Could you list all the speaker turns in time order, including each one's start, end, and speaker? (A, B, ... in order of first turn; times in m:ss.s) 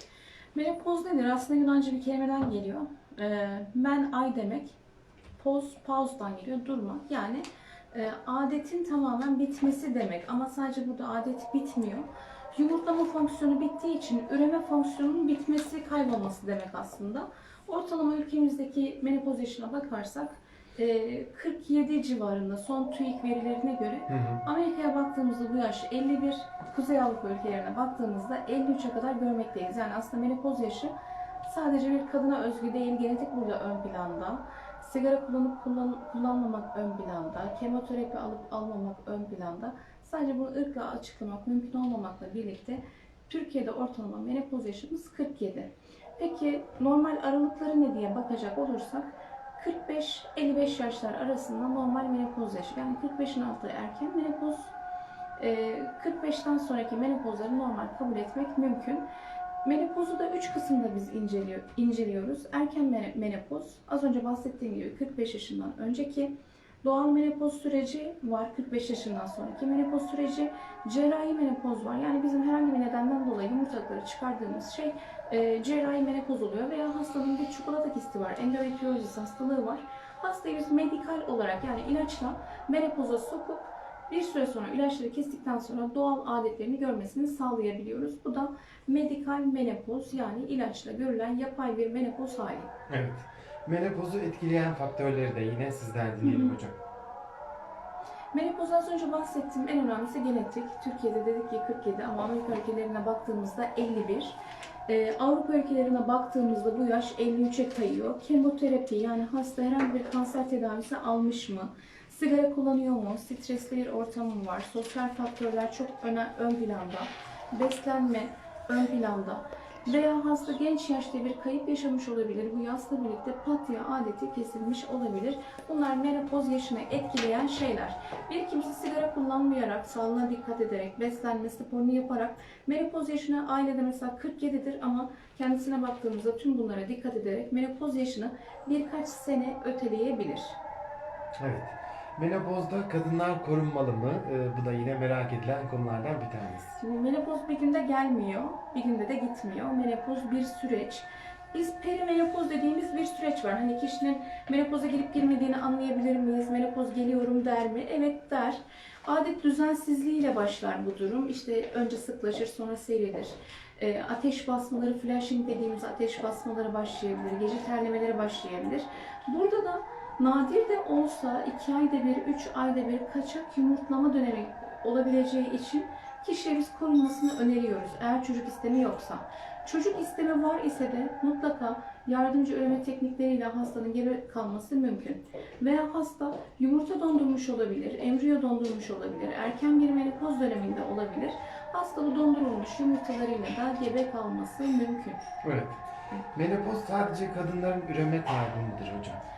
0:00.5-0:04.8 A
0:05.4-0:30.9 A
0:24.1-0:24.4 B
0:31.4-0:54.7 A
0:55.4-0:59.1 A
0:59.6-1:06.3 A
1:06.8-1:32.7 A
1:32.9-1:36.8 B
1:36.2-1:36.6 A
1:38.3-2:20.6 A
2:21.4-2:26.8 B
2:26.8-3:15.2 A
3:15.4-3:15.8 B
3:16.3-3:19.2 B